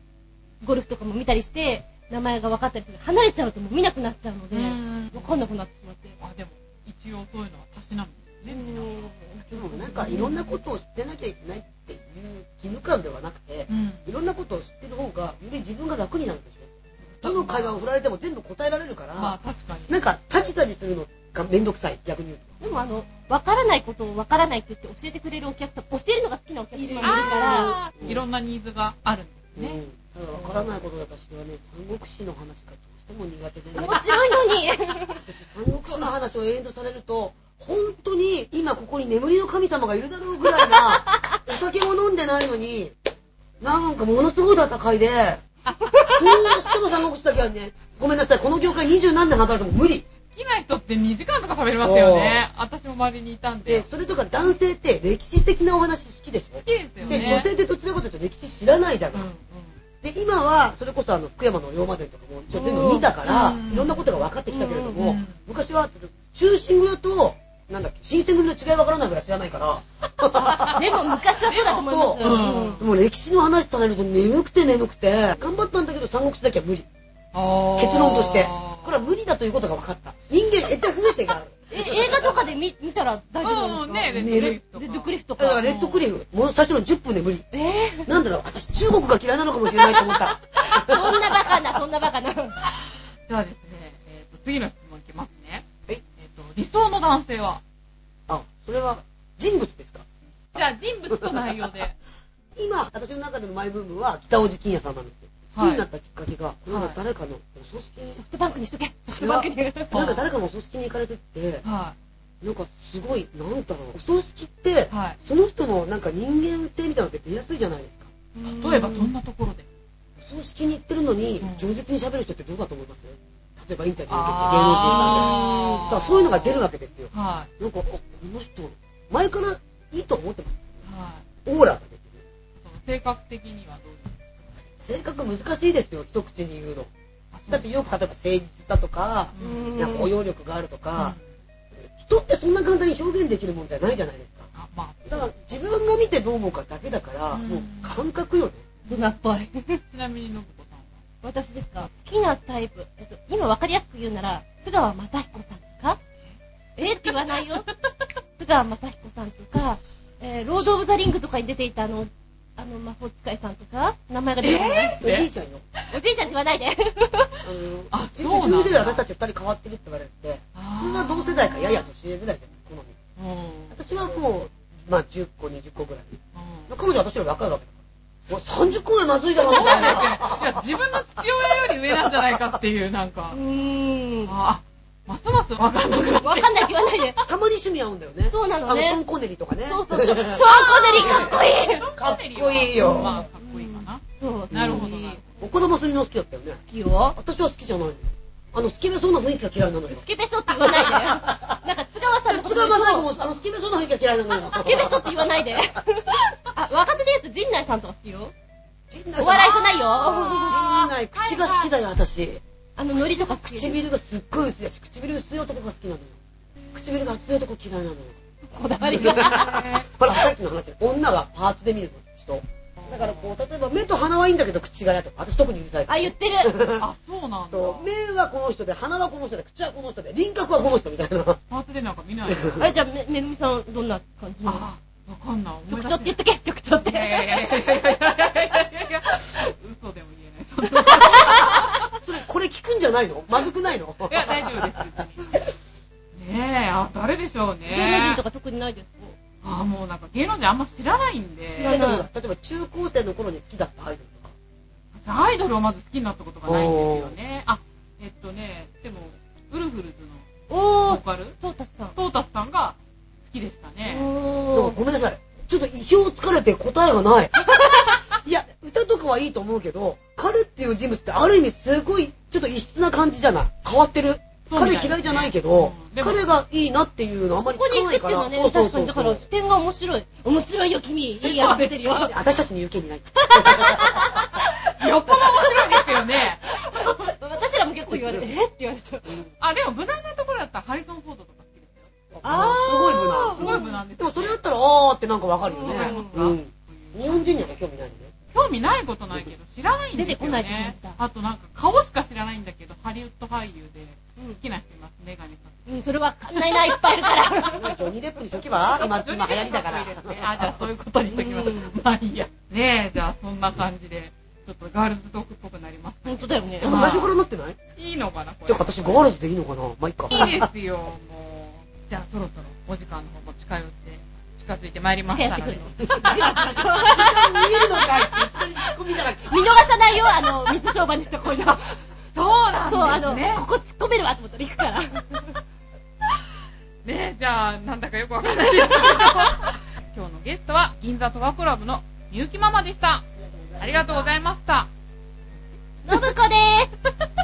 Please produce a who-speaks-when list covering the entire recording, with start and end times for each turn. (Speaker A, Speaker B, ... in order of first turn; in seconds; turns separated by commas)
Speaker A: 0.6-6.2, Speaker B: 4.5-5.4, Speaker B: 6.2-9.1, Speaker A: 8.5-10.3, Speaker C: 9.5-19.4, Speaker B: 9.8-10.6, Speaker B: 13.7-14.1, Speaker B: 17.2-17.9, Speaker B: 19.2-20.0, Speaker C: 19.9-22.6, Speaker A: 22.6-27.8, Speaker B: 22.6-23.1, Speaker C: 26.8-28.2, Speaker B: 27.0-29.8, Speaker C: 29.6-34.3, Speaker A: 33.8-35.2, Speaker C: 35.1-42.9, Speaker A: 40.7-41.4, Speaker C: 43.6-45.4, Speaker B: 45.7-46.4, Speaker C: 46.0-50.1, Speaker B: 50.3-53.9, Speaker C: 51.7-52.4, Speaker C: 53.7-59.3, Speaker B: 56.6-57.5, Speaker A: 57.0-57.5, Speaker B: 59.1-59.8, Speaker C: 60.0-76.9, Speaker A: 62.5-63.1, Speaker B: 62.9-64.1, Speaker A: 64.5-65.0, Speaker B: 64.9-65.4, Speaker A: 70.4-72.8, Speaker B: 70.5-70.8, Speaker B: 71.5-72.8, Speaker B: 77.3-79.0, Speaker C: 77.8-82.4, Speaker A: 81.7-85.7, Speaker B: 83.4-86.1, Speaker C: 84.1-84.6, Speaker C: 85.4-87.5, Speaker A: 87.5-88.2, Speaker C: 88.1-91.6, Speaker A: 89.8-92.6, Speaker B: 92.6-97.6, Speaker C: 98.3-100.0, Speaker B: 100.5-102.0, Speaker C: 101.1-101.7, Speaker C: 102.6-108.2, Speaker B: 105.6-105.8, Speaker B: 106.7-107.0, Speaker A: 108.1-110.2, Speaker C: 109.1-111.7, Speaker B: 109.9-110.2, Speaker B: 111.7-112.0, Speaker C: 112.4-118.1, Speaker B: 114.9-115.2, Speaker A: 118.3-119.1, Speaker B: 118.4-119.7, Speaker C: 120.2-130.8, Speaker B: 121.4-121.7, Speaker B: 124.1-126.6, Speaker A: 124.9-125.9, Speaker B: 127.1-127.5, Speaker B: 130.9-131.2, Speaker C: 131.4-132.2, Speaker B: 132.6-134.2, Speaker C: 134.8-136.9, Speaker B: 137.3-137.9, Speaker C: 137.5-141.2, Speaker B: 139.3-139.9, Speaker A: 139.4-140.1, Speaker B: 140.9-141.2, Speaker C: 142.0-144.5, Speaker B: 144.5-145.5, Speaker C: 145.1-148.7, Speaker B: 147.3-148.0, Speaker B: 148.9-149.2, Speaker A: 148.9-149.8, Speaker B: 149.9-150.9, Speaker A: 151.2-156.0, Speaker A: 156.8-157.7, Speaker B: 157.0-157.4, Speaker A: 158.4-165.0, Speaker B: 164.4-165.3, Speaker C: 165.0-165.6, Speaker A: 165.9-167.3, Speaker C: 167.4-173.0, Speaker B: 167.9-169.0, Speaker B: 170.6-171.8, Speaker B: 173.2-173.8, Speaker C: 173.7-180.7, Speaker B: 176.3-176.7, Speaker B: 179.4-183.4, Speaker A: 183.3-184.3, Speaker B: 184.3-187.2, Speaker A: 185.9-187.2, Speaker C: 187.2-193.2, Speaker A: 188.3-189.0, Speaker A: 189.7-191.9, Speaker B: 190.4-195.4, Speaker A: 192.8-195.2, Speaker C: 194.5-196.6, Speaker A: 196.6-197.2, Speaker C: 197.2-200.1, Speaker A: 199.9-203.2, Speaker C: 200.6-201.6, Speaker C: 202.3-205.6, Speaker A: 204.4-208.3, Speaker C: 208.9-212.4, Speaker A: 209.2-210.6, Speaker B: 209.3-211.7, Speaker A: 212.8-213.8, Speaker C: 212.9-216.2, Speaker B: 216.7-217.1, Speaker C: 216.8-218.2, Speaker A: 218.5-219.8, Speaker B: 218.8-219.9, Speaker C: 218.9-226.9, Speaker B: 222.8-223.3, Speaker A: 225.9-226.5, Speaker B: 226.8-227.9, Speaker C: 227.5-231.4, Speaker B: 231.5-232.7, Speaker C: 232.3-232.7, Speaker A: 232.5-234.7, Speaker B: 234.4-236.2, Speaker A: 235.7-237.8, Speaker B: 236.8-242.0, Speaker A: 240.7-241.8, Speaker C: 242.0-244.8, Speaker B: 244.1-245.3, Speaker B: 246.1-248.2, Speaker A: 247.7-249.2, Speaker B: 249.4-251.8, Speaker A: 251.5-252.1, Speaker C: 251.7-254.3, Speaker B: 255.0-260.3, Speaker C: 256.5-257.2, Speaker A: 260.5-262.0, Speaker B: 260.8-261.4, Speaker B: 261.9-264.1, Speaker A: 263.9-264.8, Speaker C: 264.5-279.2, Speaker B: 274.5-276.3, Speaker A: 277.4-282.1, Speaker B: 281.2-281.8, Speaker C: 281.6-284.4, Speaker A: 283.2-289.2, Speaker B: 284.7-286.5, Speaker C: 287.9-288.3, Speaker B: 289.4-292.6, Speaker C: 292.1-298.1, Speaker A: 292.2-293.8, Speaker B: 293.3-294.4, Speaker A: 295.5-296.2, Speaker B: 295.6-297.6, Speaker B: 298.3-305.7, Speaker A: 299.9-301.0, Speaker A: 305.7-307.7, Speaker B: 306.4-307.5, Speaker C: 307.5-310.5, Speaker B: 308.7-317.1, Speaker A: 311.1-311.8, Speaker A: 316.1-317.1, Speaker C: 316.6-317.6, Speaker B: 317.8-319.1, Speaker C: 318.5-320.5, Speaker B: 320.1-327.2, Speaker A: 320.1-320.4, Speaker A: 325.1-328.4, Speaker C: 326.8-329.7, Speaker A: 329.2-331.6, Speaker B: 332.1-333.5, Speaker A: 332.7-335.4, Speaker B: 336.9-343.1, Speaker A: 338.6-339.3, Speaker C: 343.4-344.1, Speaker B: 343.6-344.7, Speaker A: 345.9-346.8